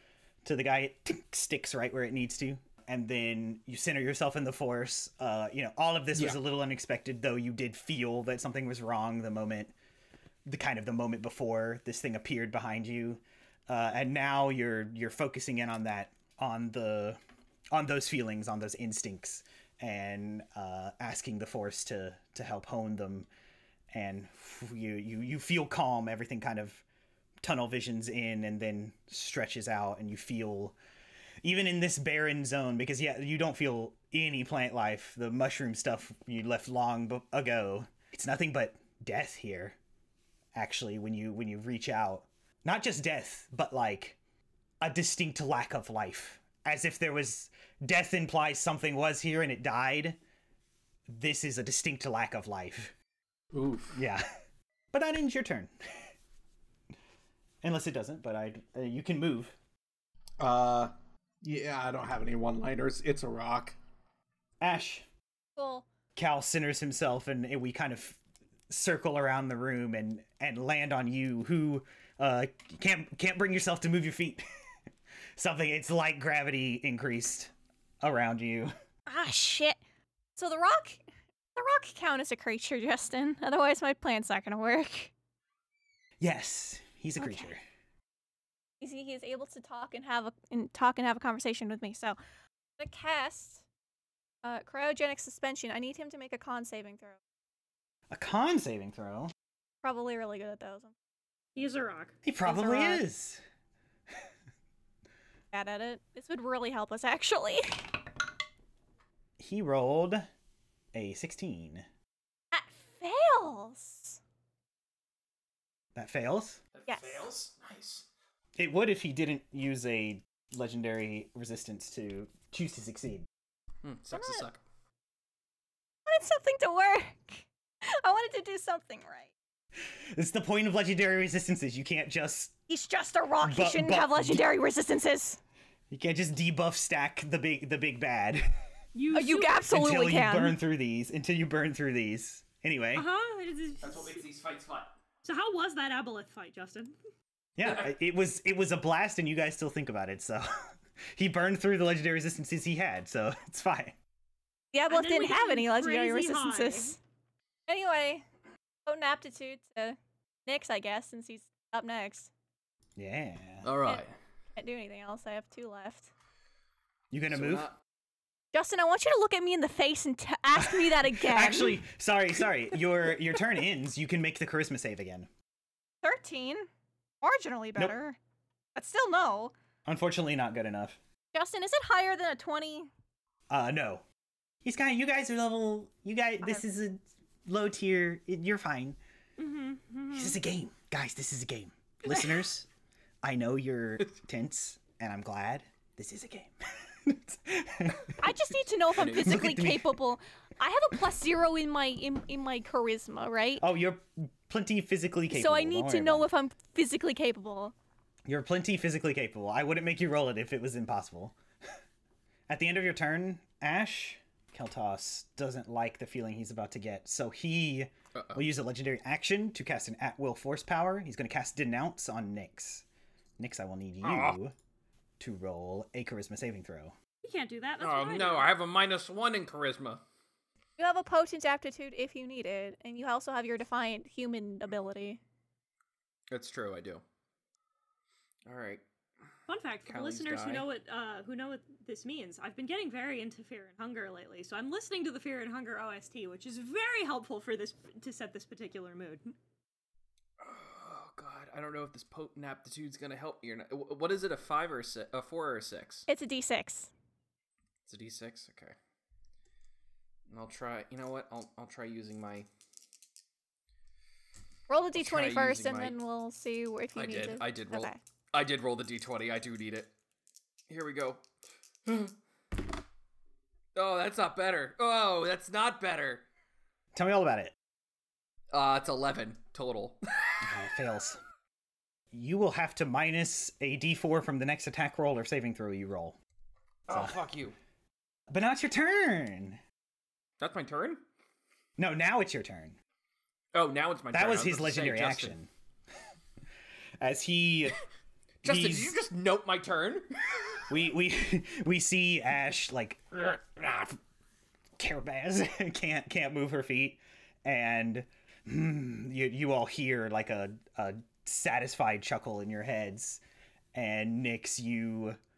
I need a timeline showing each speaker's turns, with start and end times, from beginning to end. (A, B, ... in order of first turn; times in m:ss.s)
0:00.4-0:09.7 A
0:10.4-0:17.2 A
0:17.7-0:23.3 A
0:23.9-0:26.8 A
0:27.4-0:30.8 A
0:31.4-0:39.8 A
0:40.5-0:44.2 A
0:44.8-0:50.2 A
0:51.1-0:52.9 A
0:53.5-0:54.0 B
0:53.9-0:54.2 A
0:54.9-0:56.1 A
0:57.6-0:59.5 A
1:00.4-1:03.8 B
1:04.6-1:05.1 A
1:05.6-1:05.8 C
1:06.2-1:08.2 A
1:08.7-1:14.4 A
1:15.4-1:18.7 A
1:19.1-1:19.8 C
1:20.4-1:21.0 C
1:21.5-1:25.1 C
1:26.2-1:27.6 A
1:27.2-1:27.5 C
1:28.8-1:32.2 C
1:32.8-1:33.6 C
1:34.4-1:37.2 C
1:38.1-1:39.3 A
1:39.8-1:40.9 C
1:41.5-1:42.1 D
1:42.2-1:43.4 A
1:42.4-1:43.0 C
1:45.5-1:48.0 C
1:49.4-1:50.2 A
1:50.9-1:51.8 A
1:52.5-1:54.2 C
1:55.9-1:56.6 A
1:56.7-1:58.1 E
1:56.9-1:57.2 C
1:58.6-2:03.3 A
2:03.8-2:04.6 E
2:04.1-2:04.4 C
2:06.0-2:09.3 C
2:09.8-2:12.5 A
2:12.7-2:15.4 C
2:13.4-2:14.5 A
2:15.9-2:18.5 A
2:18.9-2:19.7 D
2:19.1-2:20.6 C
2:19.7-2:23.1 A
2:22.9-2:24.2 D
2:23.8-2:24.9 E
2:25.2-2:26.9 D
2:27.6-2:34.0 A
2:27.6-2:27.9 E
2:34.7-2:37.0 C
2:34.9-2:37.0 D
2:37.7-2:38.2 C
2:38.8-2:42.3 C
2:43.0-2:43.7 A
2:43.6-2:44.1 E
2:44.6-2:46.1 C
2:47.1-2:47.7 A
2:47.3-2:47.8 E
2:48.5-2:51.8 C
2:50.6-2:55.3 A
2:56.0-2:56.7 C
2:57.2-2:58.2 C
2:58.7-2:59.5 C
2:59.8-3:01.0 A
3:01.3-3:02.9 C
3:03.5-3:04.0 A
3:04.6-3:09.0 A
3:09.4-3:10.4 D
3:10.1-3:12.7 A
3:13.2-3:18.2 A
3:18.2-3:23.6 C
3:18.9-3:19.4 E
3:19.1-3:19.9 A
3:23.6-3:26.3 A
3:25.3-3:27.7 C
3:28.2-3:31.4 A
3:32.5-3:42.8 A
3:38.1-3:38.4 E
3:43.4-3:44.5 A
3:44.0-3:44.4 E
3:45.2-3:46.9 A
3:47.2-3:48.5 D
3:47.8-3:50.0 E
3:50.8-3:55.2 C
3:56.3-3:57.0 E
3:58.4-3:58.8 E
3:59.5-4:09.3 D
3:59.8-4:00.7 E
4:10.4-4:16.1 E
4:16.1-4:16.9 C
4:17.8-4:18.7 E
4:20.3-4:22.5 E
4:24.7-4:28.0 C
4:24.9-4:26.0 E
4:26.9-4:29.9 E
4:30.7-4:31.2 E
4:31.8-4:32.1 E
4:33.7-4:36.2 E
4:36.9-4:37.5 A
4:38.5-4:40.6 E
4:40.4-4:41.2 A
4:42.1-4:46.2 A
4:46.9-4:47.5 E
4:46.9-4:47.2 A
4:48.3-4:49.6 A
4:50.4-4:51.0 E
4:51.8-4:52.8 A
4:53.5-4:55.3 E
4:54.1-4:55.5 A
4:57.0-4:57.8 A
4:58.4-4:59.0 A
4:58.4-5:00.6 E
5:00.7-5:04.0 A
5:04.8-5:13.2 A
5:13.7-5:15.2 A